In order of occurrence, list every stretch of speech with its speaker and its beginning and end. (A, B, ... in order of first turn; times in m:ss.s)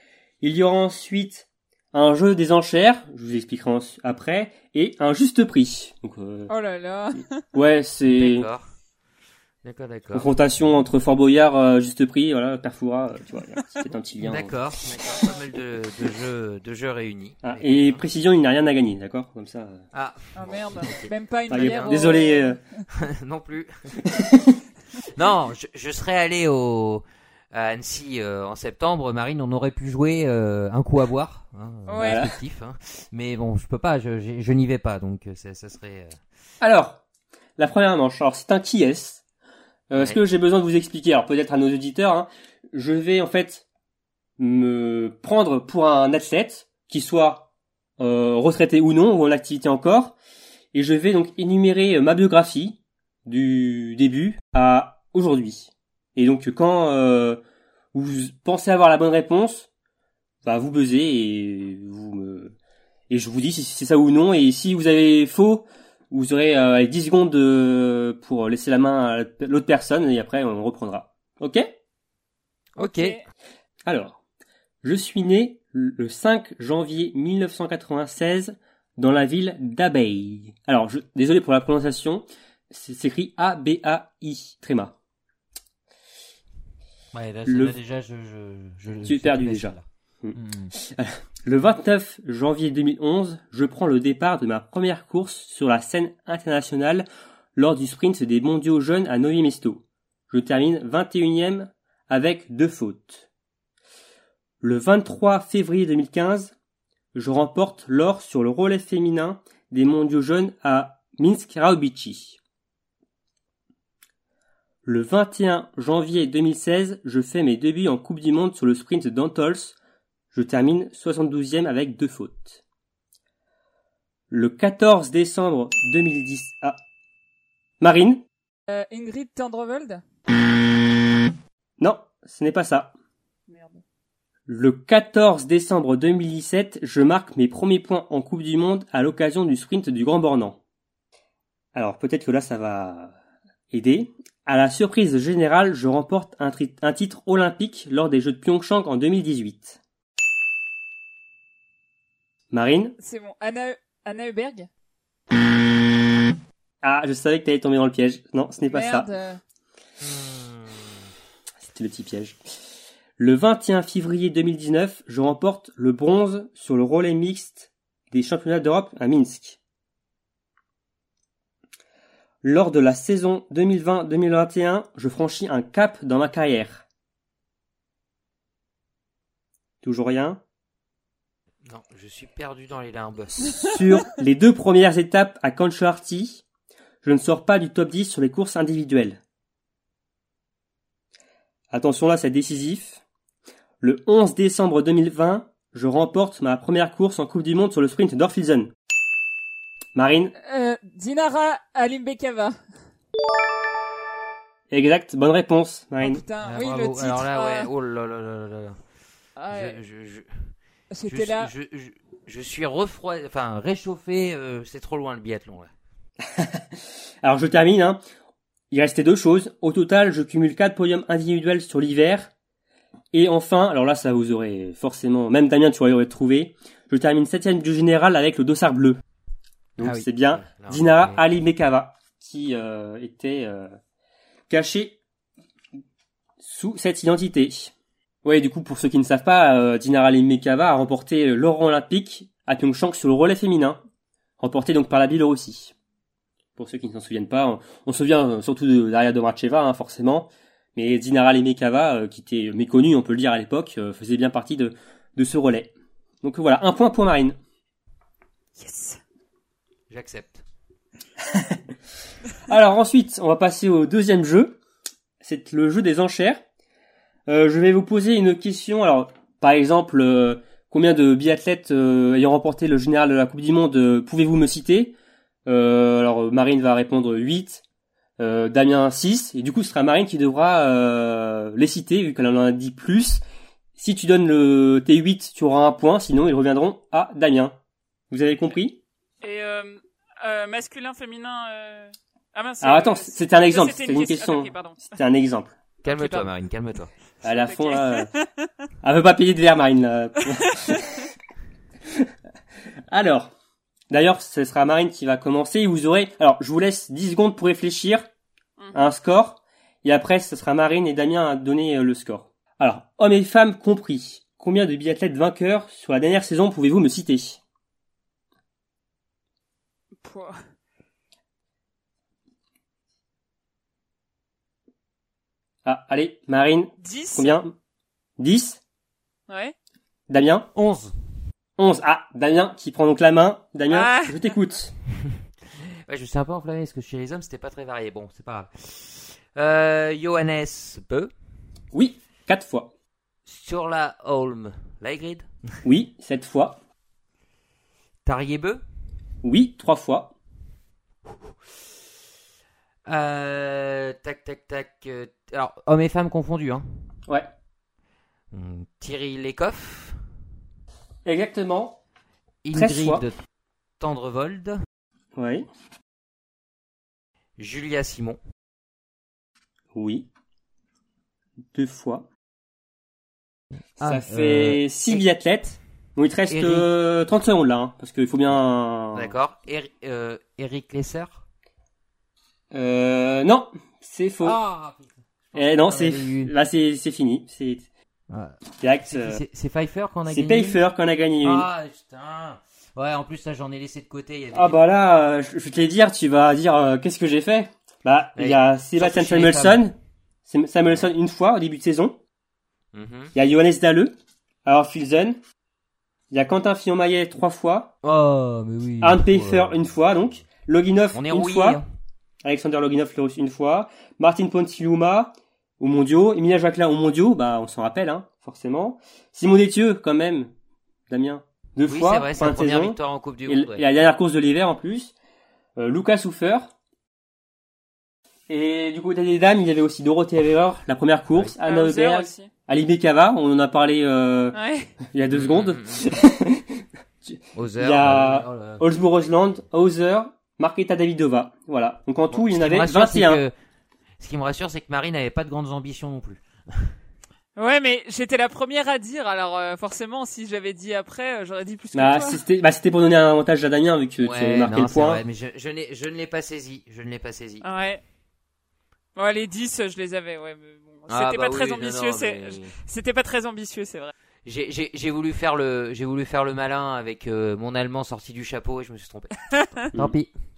0:00.4-0:06.5 A
0:06.5-0:07.4 B
0:07.2-0:08.5 A
0:08.1-0:08.7 C
0:09.6-0:10.3 C
0:10.1-0:14.6 A
0:14.2-0:18.0 C
0:17.4-0:19.8 A
0:19.9-0:22.0 C
0:20.4-0:22.6 B
0:21.5-0:22.6 A
0:22.9-0:24.0 C
0:24.0-0:24.6 A
0:25.1-0:36.2 C
0:31.9-0:32.3 B
0:32.0-0:32.3 A
0:36.6-0:37.0 A
0:37.6-0:39.2 A
0:39.9-0:43.6 A
0:44.4-0:47.5 A
0:48.0-0:50.2 A
0:50.7-0:57.4 A
0:57.9-0:59.7 A
1:00.4-1:02.6 A
1:03.1-1:11.7 A
1:12.8-1:13.2 C
1:12.8-1:13.2 B
1:13.9-1:14.2 A
1:14.8-1:24.9 A
1:27.1-1:30.7 C
1:27.5-1:27.8 A
1:29.0-1:43.3 A
1:44.6-1:46.6 A
1:47.2-1:52.4 A
1:54.8-1:59.8 A
2:00.3-2:02.6 A
2:04.3-2:06.8 A
2:07.8-2:08.2 A
2:08.7-2:10.0 B
2:11.8-2:12.9 A
2:13.5-2:13.8 B
2:14.5-2:20.6 A
2:21.8-2:23.1 A
2:23.7-2:29.8 A
2:32.5-2:33.0 A
2:33.0-2:34.7 B
2:36.8-2:39.1 A
2:38.7-2:39.4 B
2:40.0-2:40.9 C
2:41.6-2:42.4 A
2:43.2-2:49.6 A
2:52.4-2:56.8 A
2:59.8-3:00.4 A
3:01.7-3:03.8 C
3:03.6-3:06.4 A
3:07.0-3:09.2 A
3:11.7-3:13.0 A
3:13.8-3:18.7 A
3:20.0-3:20.4 A
3:20.4-3:22.6 B
3:24.7-3:26.2 A
3:26.0-3:27.7 B
3:26.4-3:28.8 C
3:29.4-3:29.8 B
3:29.5-3:30.5 C
3:30.9-3:31.5 B
3:31.1-3:35.7 C
3:36.2-3:36.7 A
3:37.2-3:38.0 A
3:38.7-3:42.3 A
3:43.1-3:49.0 A
3:49.8-3:53.8 A
3:49.8-3:51.2 C
3:54.5-3:55.0 A
3:56.4-3:57.7 A
3:58.2-4:03.8 A
4:04.4-4:05.7 A
4:06.6-4:17.4 A
4:18.6-4:19.0 B
4:19.9-4:20.4 C
4:22.5-4:24.6 A
4:25.2-4:26.4 A
4:27.3-4:35.0 A
4:35.5-4:37.6 A
4:38.2-4:43.2 A
4:43.8-4:47.6 A
4:48.1-4:48.8 A
4:49.2-4:54.9 B
4:52.6-4:55.6 A
4:55.8-4:56.9 C
4:55.9-4:56.3 B
4:57.2-4:58.1 A
4:57.2-4:58.5 B
4:58.8-5:01.1 A
5:00.4-5:00.8 B
5:02.9-5:03.3 A
5:03.9-5:08.1 A
5:08.6-5:08.8 B
5:08.7-5:17.4 A
5:20.0-5:20.4 B
5:25.6-5:27.5 A
5:26.8-5:27.4 B
5:28.2-5:28.6 A
5:29.3-5:29.5 B
5:30.1-5:30.5 A
5:30.6-5:30.9 C
5:31.6-5:34.7 A
5:33.7-5:34.3 B
5:35.9-5:41.1 C
5:41.7-5:42.7 A
5:43.3-5:45.3 C
5:45.6-5:46.6 A
5:48.0-5:48.6 C
5:49.2-5:50.1 A
5:52.9-5:56.7 C
5:58.3-6:00.0 C
6:01.0-6:01.8 A
6:02.4-6:03.2 C
6:02.5-6:03.0 A
6:03.8-6:04.6 C
6:05.2-6:05.5 A
6:07.4-6:08.2 C
6:09.7-6:10.1 A
6:11.5-6:12.1 A
6:13.8-6:15.0 C
6:13.8-6:19.1 A
6:16.3-6:16.7 C
6:19.0-6:21.2 C
6:22.5-6:24.4 A
6:24.2-6:26.3 C
6:25.4-6:27.7 A
6:28.1-6:30.6 C
6:28.6-6:29.2 A
6:30.1-6:31.5 A
6:31.2-6:34.6 C
6:34.3-6:42.0 A
6:38.2-6:39.6 C
6:42.7-6:43.1 C
6:43.2-6:43.9 A
6:44.4-6:45.2 A
6:46.1-6:47.7 A
6:47.8-6:49.6 C
6:48.8-6:51.6 A
6:50.9-6:51.7 C
6:52.2-7:00.3 A
7:00.9-7:04.9 A
7:01.7-7:03.6 C
7:05.6-7:06.5 A
7:08.3-7:23.2 A
7:11.4-7:12.3 B
7:14.3-7:14.8 B
7:15.1-7:15.9 C
7:17.4-7:18.6 C
7:22.1-7:23.3 C
7:24.0-7:26.7 C
7:27.4-7:32.2 B
7:31.8-7:35.0 A
7:34.0-7:37.5 C
7:37.4-7:37.8 B
7:39.0-7:43.9 B
7:40.9-7:42.5 C
7:44.3-7:50.1 C
7:49.3-7:49.7 B